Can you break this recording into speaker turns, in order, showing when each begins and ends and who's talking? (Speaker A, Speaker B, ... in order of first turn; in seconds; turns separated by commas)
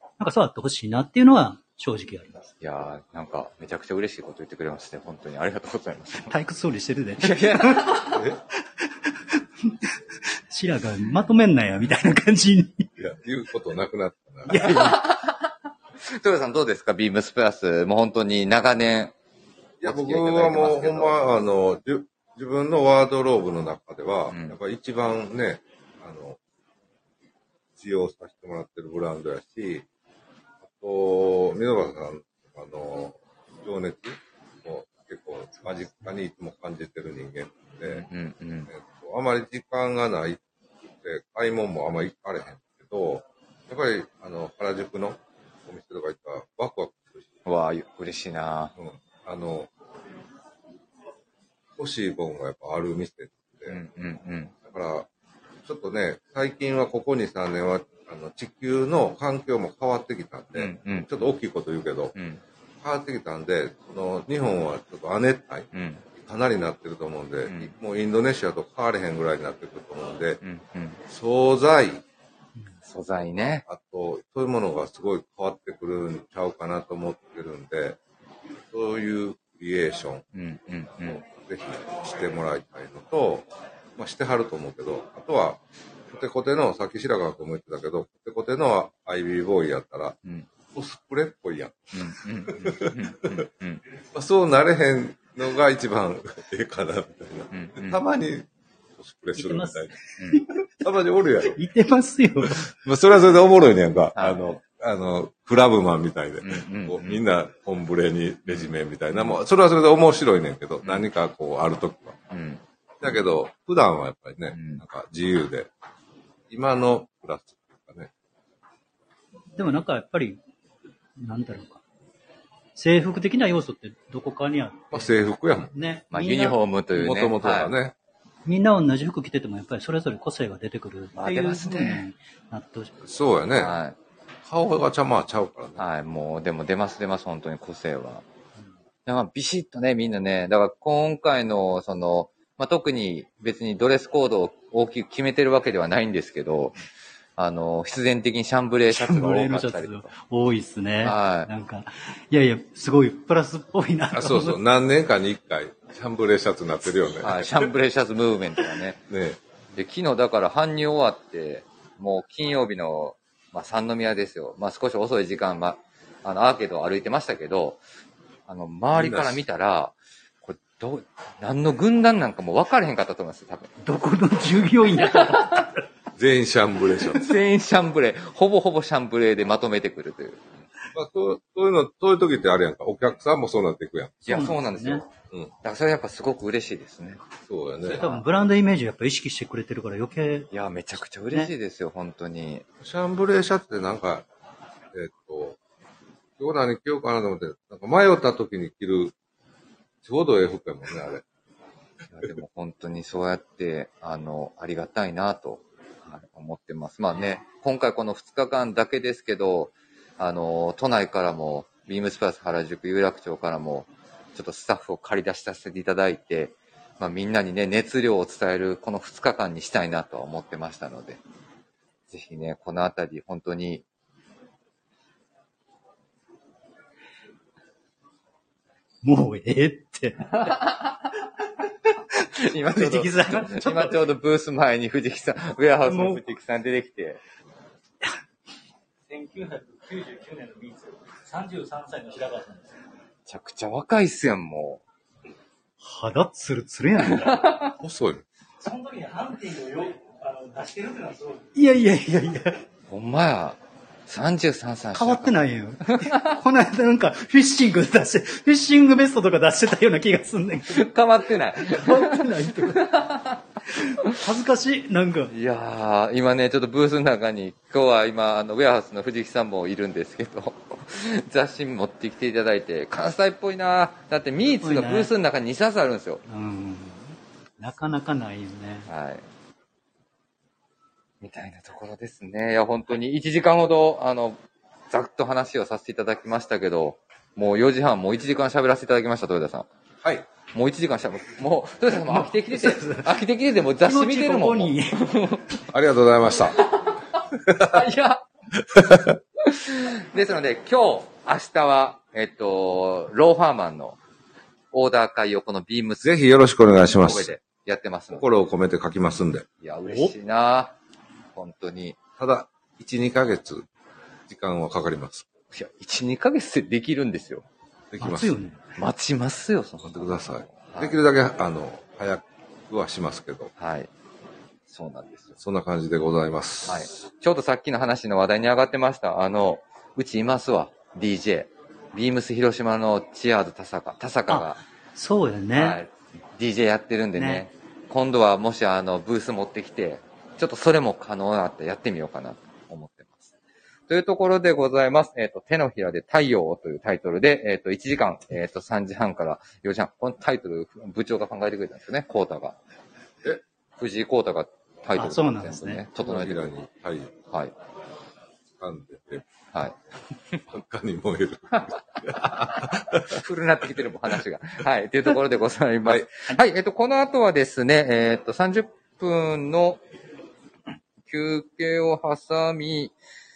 Speaker A: 0.2-2.5, Speaker B: 2.6-6.3, Speaker A: 6.2-12.9, Speaker B: 7.2-8.2, Speaker C: 8.1-8.4, Speaker C: 13.0-14.7, Speaker A: 14.5-15.1, Speaker B: 14.6-19.1, Speaker C: 19.8-26.4, Speaker B: 19.8-21.2, Speaker B: 24.3-24.6, Speaker C: 27.8-29.9, Speaker C: 30.6-38.1, Speaker B: 37.8-38.7, Speaker C: 38.7-40.4, Speaker C: 41.0-47.3, Speaker B: 47.5-48.7, Speaker C: 48.8-49.7, Speaker C: 51.8-53.8, Speaker B: 53.7-54.5, Speaker C: 54.6-55.1, Speaker C: 55.6-62.1, Speaker B: 60.5-61.1, Speaker B: 62.1-62.4, Speaker C: 62.8-70.4, Speaker B: 65.7-66.0, Speaker B: 70.4-71.0, Speaker C: 71.1-72.0, Speaker B: 72.8-73.6, Speaker C: 73.7-78.0, Speaker C: 78.7-80.2, Speaker B: 80.3-81.2, Speaker C: 81.0-85.6, Speaker C: 86.1-90.2, Speaker C: 90.7-93.5, Speaker B: 91.9-93.8, Speaker C: 94.1-98.5, Speaker B: 97.5-98.0, Speaker C: 99.0-100.0, Speaker A: 99.3-100.6, Speaker C: 100.8-101.6, Speaker A: 101.4-102.7, Speaker C: 102.5-112.2, Speaker B: 104.2-104.6, Speaker B: 106.4-107.2, Speaker B: 112.3-112.6, Speaker C: 113.0-115.7, Speaker B: 114.5-114.8, Speaker C: 116.5-118.1, Speaker A: 119.5-120.4, Speaker A: 121.2-121.8, Speaker A: 122.8-125.1, Speaker C: 124.9-125.7, Speaker A: 125.7-126.6, Speaker B: 126.1-127.7, Speaker C: 126.9-127.9, Speaker A: 128.4-132.9, Speaker B: 131.2-132.1, Speaker C: 133.0-133.8, Speaker B: 133.6-133.9, Speaker C: 134.4-135.8, Speaker B: 135.8-138.2, Speaker B: 139.1-146.8, Speaker B: 147.4-150.1, Speaker A: 148.9-154.6, Speaker B: 151.0-151.5, Speaker C: 154.1-157.7, Speaker B: 157.2-159.0, Speaker C: 159.1-159.4, Speaker B: 159.8-167.8, Speaker B: 168.5-173.7, Speaker C: 168.9-169.4, Speaker A: 173.8-175.8, Speaker B: 175.0-175.6, Speaker C: 176.2-177.3, Speaker B: 177.1-180.4, Speaker C: 180.9-184.2, Speaker A: 184.2-185.0, Speaker B: 184.2-185.1, Speaker B: 185.6-187.2, Speaker C: 187.4-188.0, Speaker A: 187.8-190.5, Speaker B: 188.0-188.2, Speaker B: 190.5-192.6, Speaker C: 192.8-194.2, Speaker C: 194.9-195.6, Speaker C: 196.4-199.1, Speaker C: 200.0-201.2, Speaker B: 202.1-221.2, Speaker B: 222.1-223.8, Speaker A: 229.0-230.6, Speaker B: 230.3-231.2, Speaker A: 232.1-234.0, Speaker B: 232.2-237.2, Speaker A: 235.8-236.2, Speaker A: 239.1-242.8, Speaker B: 243.3-244.8, Speaker A: 245.8-247.6, Speaker B: 247.0-247.7, Speaker C: 247.8-248.2, Speaker A: 248.6-252.6, Speaker B: 252.9-255.4, Speaker A: 254.9-260.9, Speaker B: 255.9-256.4, Speaker B: 260.7-264.1, Speaker A: 261.6-263.0, Speaker A: 263.7-265.3, Speaker B: 265.3-276.2, Speaker A: 274.6-275.1, Speaker A: 276.3-278.9, Speaker B: 278.9-279.2, Speaker B: 281.2-284.4, Speaker B: 284.9-289.7, Speaker B: 290.5-295.4, Speaker A: 292.1-293.2, Speaker A: 293.8-295.1, Speaker C: 295.7-296.6, Speaker B: 296.6-298.2, Speaker C: 297.5-297.8, Speaker C: 298.7-299.2, Speaker B: 299.4-304.0, Speaker B: 304.7-306.1, Speaker C: 306.0-307.3, Speaker B: 306.9-308.2, Speaker C: 308.1-309.4, Speaker B: 309.6-310.7, Speaker A: 309.9-310.1, Speaker B: 311.3-312.0, Speaker C: 312.2-313.6, Speaker C: 314.3-315.3, Speaker B: 315.5-317.4, Speaker C: 317.9-318.3, Speaker A: 318.0-318.6, Speaker B: 318.8-320.9, Speaker C: 319.8-323.5, Speaker B: 323.6-323.9, Speaker B: 324.7-325.3, Speaker C: 325.4-326.9, Speaker B: 326.6-334.6, Speaker A: 334.3-335.8, Speaker B: 335.5-343.3, Speaker A: 337.2-337.4, Speaker B: 343.9-352.6, Speaker B: 353.8-356.4, Speaker A: 354.9-355.8, Speaker C: 355.9-357.1, Speaker C: 358.6-359.2, Speaker C: 360.5-363.2, Speaker B: 362.6-369.8, Speaker B: 371.1-372.9